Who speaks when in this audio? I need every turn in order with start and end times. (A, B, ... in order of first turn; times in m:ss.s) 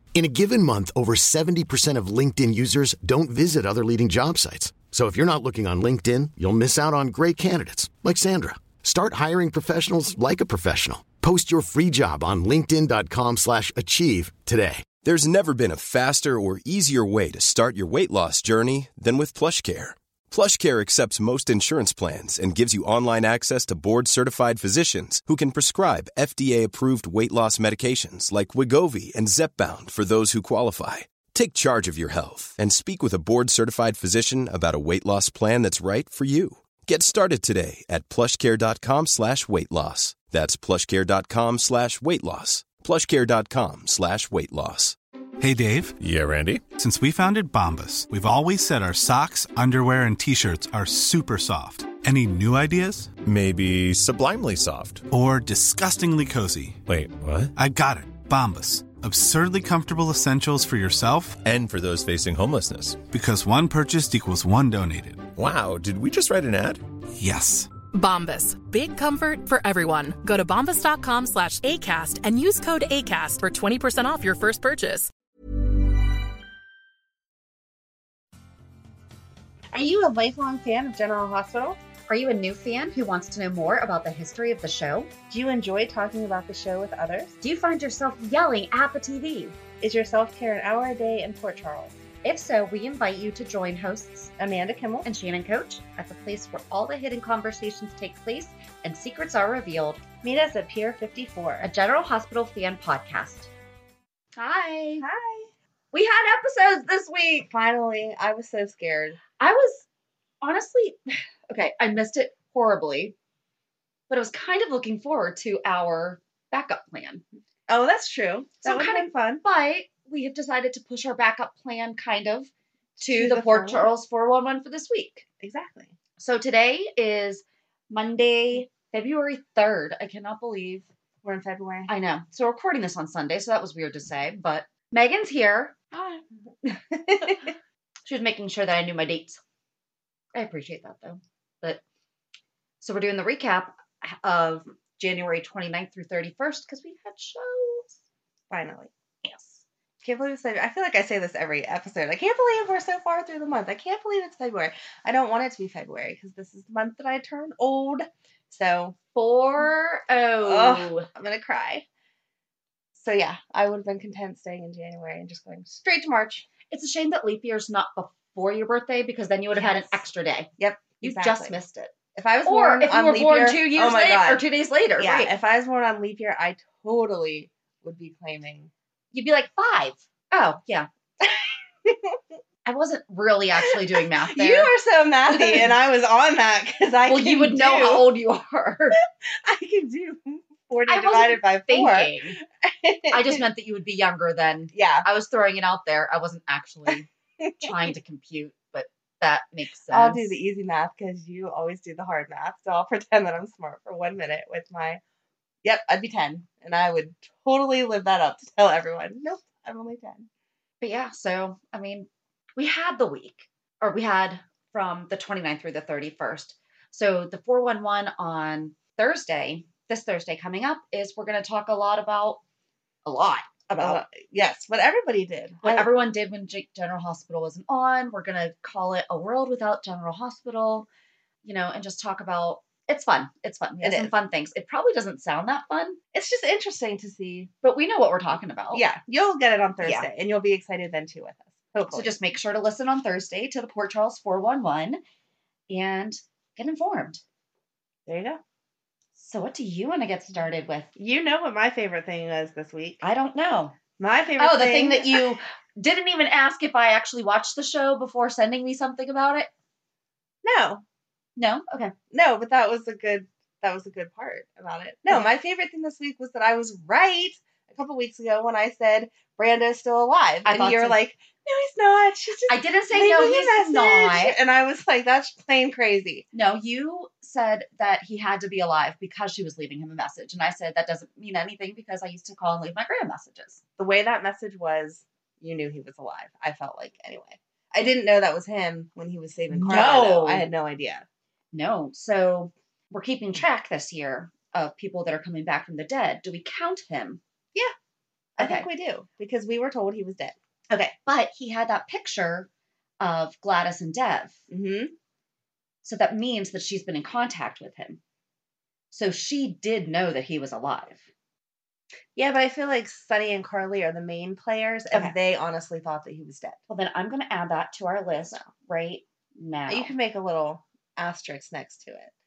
0:00.1-0:14.8 A
0:15.0-0:45.0 B
0:45.4-0:46.0 C
0:46.0-0:46.7 D
0:46.7-0:53.2 C
0:53.2-0:55.1 D
0:55.1-0:56.8 C
0:56.9-0:57.5 D
0:57.6-1:01.4 C
1:01.4-1:03.0 D
1:03.1-1:05.3 C
1:05.4-1:06.8 D
1:07.2-1:07.7 C
1:07.9-1:15.1 E
1:19.7-1:21.8 F
1:22.1-1:25.1 G
1:25.3-1:27.4 F
1:27.4-1:29.6 G
1:29.8-1:32.0 F
1:32.2-1:34.3 G
1:34.4-1:35.1 F
1:35.0-1:40.0 G
1:40.2-1:41.7 F
1:41.6-1:43.5 G
1:44.4-1:45.0 G
1:45.0-1:45.5 F
1:45.9-1:47.5 G
1:47.5-1:49.2 F
1:49.4-1:49.8 G
1:50.4-1:53.2 G
1:54.1-1:57.2 G
1:57.7-1:59.4 F
1:58.6-2:02.5 G
2:03.0-2:03.9 F
2:03.0-2:05.2 G
2:05.4-2:06.0 F
2:06.2-2:10.9 G
2:11.2-2:11.9 F
2:11.9-2:15.8 G
2:15.9-2:16.2 F
2:16.9-2:17.4 F
2:18.1-2:19.4 G
2:20.4-2:21.8 G
2:22.8-2:28.0 G
2:28.5-2:28.9 F
2:29.2-2:29.6 G
2:30.0-2:39.0 F
2:39.2-2:41.1 G
2:40.4-2:41.8 F
2:43.0-2:46.5 F
2:46.7-2:55.3 G
2:49.5-2:50.0 F
2:50.6-2:51.6 F
2:52.1-2:54.4 F
2:55.0-2:58.7 F
2:59.1-3:00.9 G
3:01.2-3:02.2 F
3:02.6-3:04.7 G
3:04.3-3:08.1 F
3:05.3-3:05.7 G
3:07.1-3:09.0 G
3:09.4-3:13.4 F
3:10.9-3:12.4 G
3:13.1-3:17.1 G
3:14.7-3:15.1 F
3:17.4-3:17.7 F
3:17.6-3:20.4 G
3:19.9-3:25.0 F
3:25.6-3:30.3 F
3:30.8-3:42.4 G
3:43.0-3:44.0 G
3:43.8-3:45.9 F
3:45.6-3:50.9 G
3:51.4-3:56.0 G
3:53.8-3:54.1 F
3:56.1-3:57.5 F
3:57.6-3:58.8 G
3:58.7-4:02.1 F
3:59.8-4:00.1 G
4:01.9-4:05.0 G
4:05.7-4:07.2 G
4:08.1-4:08.4 F
4:09.2-4:10.9 G
4:11.0-4:13.0 F
4:13.0-4:13.8 G
4:14.0-4:15.3 F
4:14.4-4:19.5 G
4:20.4-4:20.8 F
4:21.4-4:21.9 G
4:22.1-4:36.3 F
4:30.4-4:31.0 G
4:32.5-4:34.4 G
4:36.3-4:43.6 G
4:43.8-4:51.0 F
4:49.5-4:50.5 G
4:51.5-4:57.2 G
4:58.4-4:58.7 G
4:58.4-5:00.9 F
5:00.9-5:02.5 G
5:03.0-5:04.4 G
5:04.5-5:04.9 F
5:05.8-5:08.0 G
5:08.9-5:11.1 G
5:12.2-5:16.6 F
5:16.7-5:19.9 G
5:18.2-5:18.5 F
5:19.7-5:22.1 F